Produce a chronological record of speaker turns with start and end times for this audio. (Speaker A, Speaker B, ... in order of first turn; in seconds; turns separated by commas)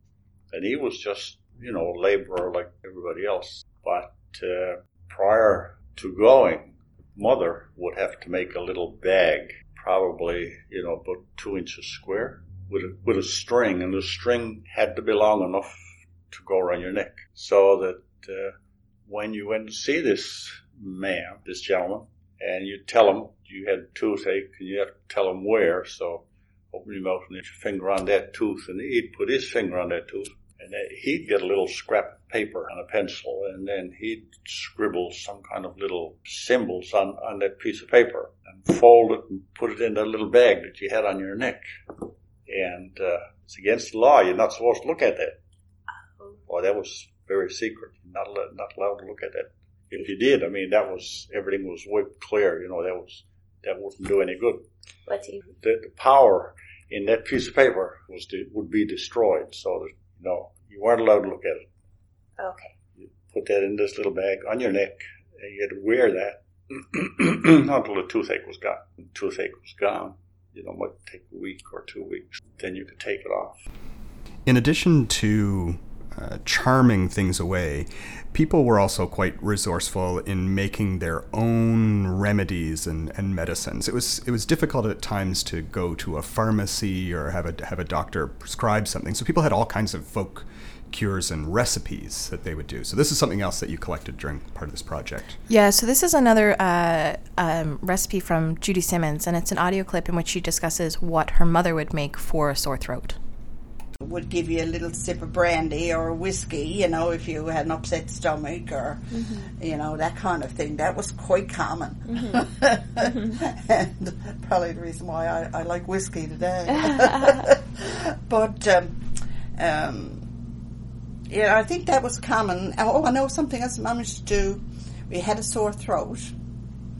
Speaker A: 0.5-18.5, Speaker A: 19.1-41.6, Speaker A: 42.5-45.4, Speaker A: 46.5-54.6, Speaker B: 55.1-55.4, Speaker A: 55.5-61.6, Speaker B: 62.4-62.7, Speaker A: 63.0-73.6, Speaker C: 74.5-95.4, Speaker D: 95.5-103.2, Speaker E: 104.0-119.0, Speaker B: 109.1-109.5, Speaker B: 112.1-112.5, Speaker B: 113.0-113.4, Speaker B: 116.8-117.1, Speaker E: 119.5-120.2, Speaker E: 121.3-126.3